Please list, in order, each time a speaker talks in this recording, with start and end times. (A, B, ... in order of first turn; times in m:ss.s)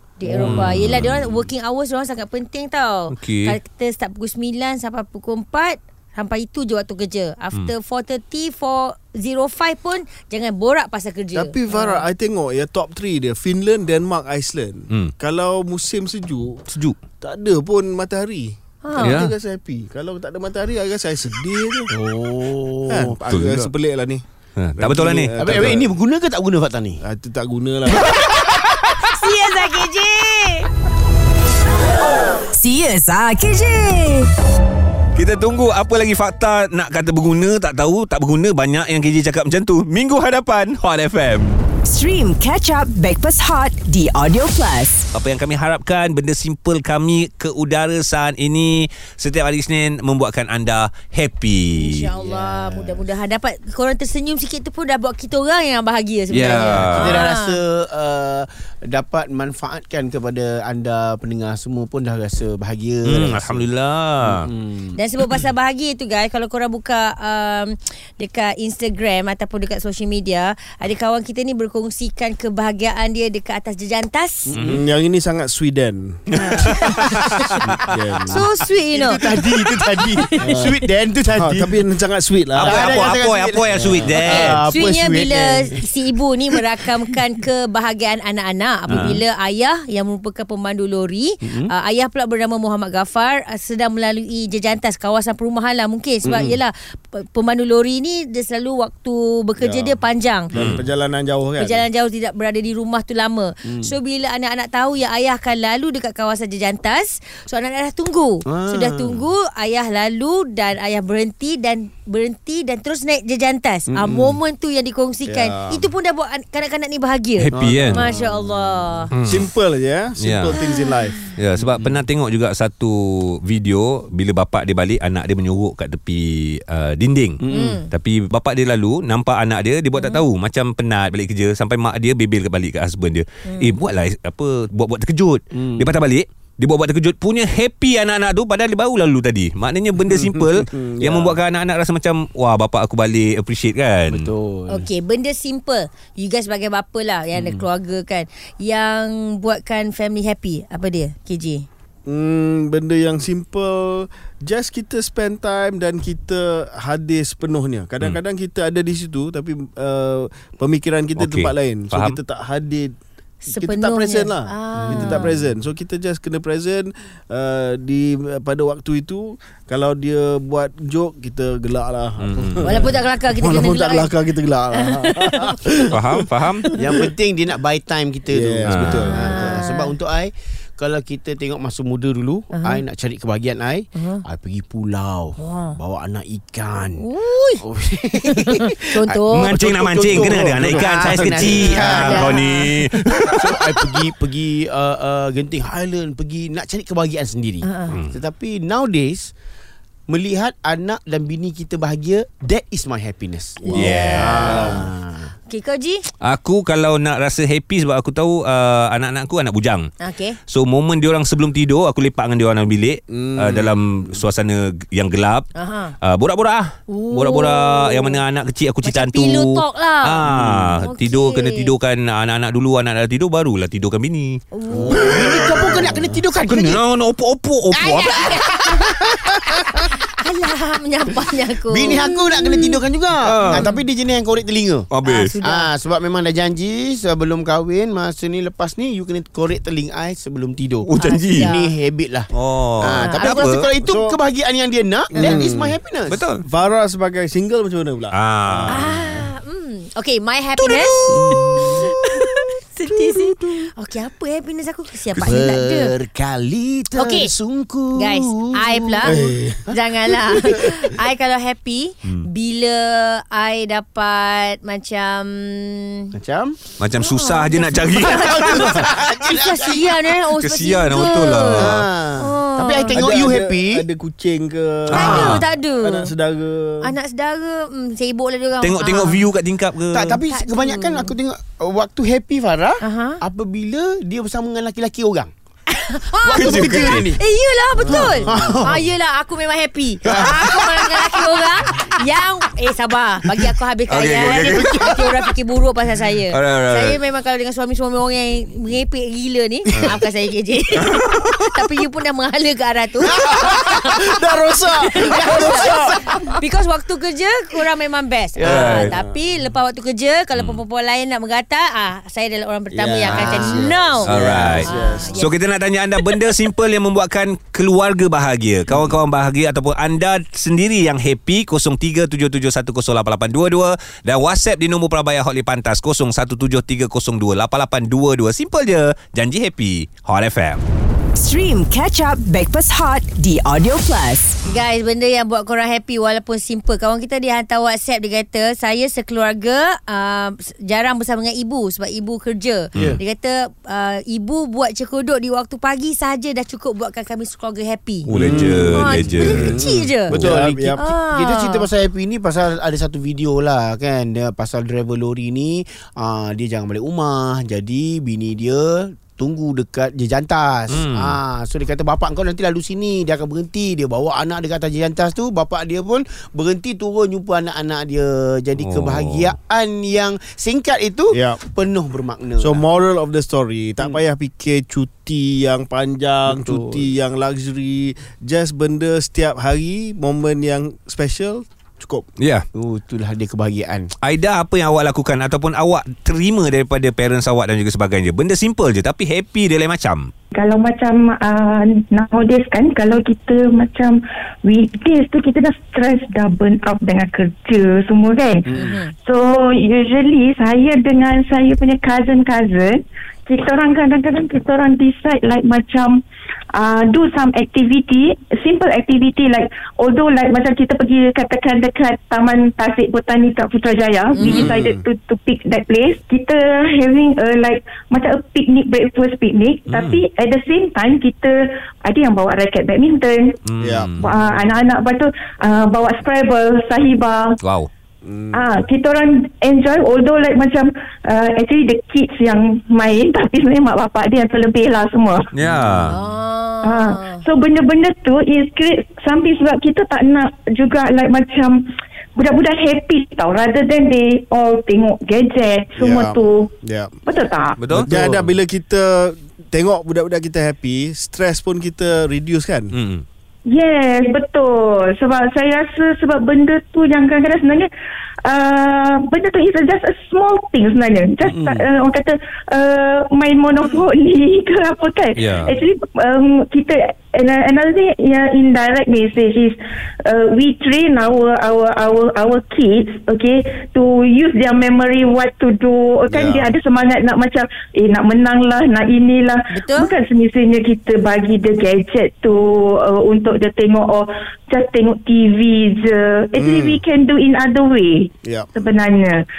0:00.2-0:12.0 A
0:00.4-0:01.3 B
0:03.1-0:03.6 B
0:11.3-0:16.6 C
0:16.7-0:17.0 B
0:17.2-0:21.9 C
0:18.8-0:19.3 A
0:19.0-0:19.3 B
0:21.9-0:23.7 D
0:22.9-0:24.2 C
0:23.3-0:23.6 B
0:24.6-0:25.4 B
0:24.8-0:25.9 C
0:25.4-0:27.0 D
0:27.0-0:28.2 C
0:28.2-0:28.4 D
0:29.0-0:30.7 A
0:32.5-0:34.3 E
0:35.1-0:41.6 B
0:41.8-0:45.0 E
0:45.1-0:52.0 B
0:51.8-0:57.6 A
0:52.0-0:53.1 D
0:56.3-0:57.2 B
0:56.7-1:03.7 D
1:03.0-1:04.4 B
1:04.2-1:05.0 D
1:05.0-1:14.5 A
1:14.5-1:14.8 D
1:14.6-1:16.7 C
1:16.3-1:17.6 A
1:16.4-1:17.4 B
1:17.7-1:21.8 D
1:17.8-1:18.5 C
1:18.3-1:19.2 A
1:20.4-1:20.7 C
1:21.3-1:23.2 C
1:22.5-1:24.6 B
1:22.6-1:25.9 D
1:23.7-1:24.2 C
1:24.4-1:40.5 A
1:28.9-1:29.2 D
1:28.9-1:29.2 B
1:31.4-1:31.7 D
1:36.2-1:36.6 D
1:39.6-1:41.9 C
1:40.5-1:40.8 B
1:41.6-1:59.1 A
1:43.6-1:43.9 D
1:48.4-1:49.2 D
1:53.9-1:54.4 D
1:55.3-1:55.9 C
1:57.4-1:58.1 B
1:57.5-1:58.5 D
1:59.1-1:59.5 B
1:59.3-2:01.2 C
2:00.2-2:00.6 B
2:00.6-2:00.9 A
2:01.4-2:24.3 B
2:01.6-2:02.0 D
2:07.4-2:07.8 D
2:07.5-2:07.9 A
2:10.0-2:10.2 A
2:13.4-2:13.8 A
2:15.5-2:15.9 D
2:20.1-2:21.4 C
2:24.1-2:24.9 D
2:24.7-2:31.6 A
2:27.3-2:27.6 D
2:32.0-2:42.9 C
2:41.2-2:42.2 B
2:43.4-2:45.3 A
2:43.5-2:56.9 C
2:44.7-2:45.4 D
2:52.2-2:52.8 B
2:52.6-2:54.1 A
2:54.7-2:55.6 A
2:55.9-2:56.7 B
2:56.8-3:07.0 D
2:58.3-2:59.6 C
2:58.6-2:59.1 B
2:59.0-2:59.9 A
3:02.5-3:02.8 A
3:03.9-3:04.2 A
3:05.4-3:05.8 A
3:07.0-3:07.6 A
3:07.6-3:12.4 D
3:08.2-3:09.5 A
3:09.3-3:13.9 B
3:10.1-3:11.8 C
3:11.7-3:12.8 A
3:13.1-3:19.3 D
3:17.6-3:17.9 A
3:20.1-3:25.3 D
3:23.6-3:24.7 A
3:23.7-3:24.7 B
3:24.1-3:24.8 C
3:25.5-3:26.0 A
3:26.2-3:29.9 B
3:30.0-3:30.4 A
3:30.5-3:35.5 B
3:33.1-3:34.0 C
3:35.5-3:35.9 A
3:36.0-3:44.4 B
3:36.9-3:38.2 A
3:38.8-3:40.2 A
3:40.3-3:40.8 C
3:40.8-3:41.7 A
3:44.5-3:45.1 A
3:44.7-3:46.8 D
3:44.9-3:48.4 B
3:47.7-3:49.7 D
3:48.1-3:48.6 A
3:50.2-3:52.8 A
3:51.7-3:54.9 D
3:53.2-3:53.7 B
3:53.4-3:53.8 A
3:54.9-3:55.3 B
3:55.0-3:55.7 A
3:55.4-4:02.3 D
4:00.8-4:01.5 B
4:01.0-4:01.7 A
4:02.3-4:03.7 B
4:02.8-4:06.2 D
4:03.0-4:03.6 A
4:03.8-4:04.2 C
4:05.1-4:05.4 A
4:05.1-4:05.8 C
4:06.1-4:06.4 B
4:06.4-4:09.3 C
4:08.1-4:08.9 B
4:08.7-4:15.9 A
4:11.1-4:11.7 D
4:15.2-4:20.9 D
4:17.0-4:17.3 A
4:18.0-4:26.1 A
4:19.0-4:19.6 C
4:26.1-4:26.6 D
4:26.8-4:28.8 B
4:27.0-4:33.0 A
4:27.9-4:30.1 D
4:30.4-4:31.8 B
4:31.5-4:33.8 D
4:32.9-4:36.9 C
4:34.9-4:35.4 B
4:34.9-4:36.1 A
4:34.9-4:35.4 D
4:36.8-4:39.3 A
4:38.6-4:40.2 B
4:39.9-4:45.3 D
4:40.3-4:41.1 A
4:42.8-4:43.2 A
4:45.7-5:04.0 A
4:46.2-4:47.2 D
4:46.3-4:47.1 B
4:47.8-4:48.5 C
4:47.9-4:48.8 D
4:50.0-4:50.8 D
4:50.1-4:50.4 B
4:53.9-4:55.0 B
4:54.1-4:55.0 D
4:56.3-4:57.0 B
5:00.8-5:01.5 B
5:03.0-5:06.2 C
5:04.8-5:15.4 A
5:08.4-5:08.9 D
5:08.4-5:08.9 B
5:10.3-5:10.6 B
5:12.7-5:15.2 C
5:13.0-5:14.6 D
5:14.0-5:30.6 B
5:31.2-5:34.4 E
5:34.4-5:50.2 A
5:42.7-5:43.0 D
5:48.1-5:50.3 B
5:48.1-5:50.9 C
5:49.1-6:12.6 D
5:50.8-5:51.7 A
6:00.7-6:01.2 B
6:08.6-6:09.3 B
6:11.1-6:11.4 C
6:12.4-6:22.0 C
6:16.3-6:16.9 D
6:22.2-6:22.4 B
6:22.5-6:23.9 D
6:24.0-6:30.1 B
6:30.3-6:38.5 F
6:38.5-6:38.8 D
6:38.5-6:38.9 A
6:39.0-6:46.0 F
6:46.5-7:03.4 F
6:54.2-6:54.5 A
6:54.2-6:54.8 C
6:59.7-7:00.0 B
7:03.5-7:04.1 B
7:03.6-7:04.5 C
7:04.0-7:07.3 F
7:07.4-7:07.7 B
7:08.0-7:08.4 C
7:08.3-7:15.2 F
7:15.3-7:16.0 B
7:15.4-7:16.0 C
7:15.9-7:17.2 A
7:16.6-7:21.6 F
7:22.2-7:26.5 F
7:25.8-7:26.9 C
7:27.0-7:27.6 F
7:27.6-7:27.9 B
7:27.7-7:28.3 D
7:27.7-7:32.7 C
7:32.7-7:33.0 B
7:33.5-7:37.7 F
7:38.2-8:09.2 F
7:41.3-7:41.6 D
7:45.2-7:45.5 B
7:56.1-7:56.5 C
7:59.5-7:59.9 A
8:06.4-8:06.8 C
8:08.2-8:08.5 C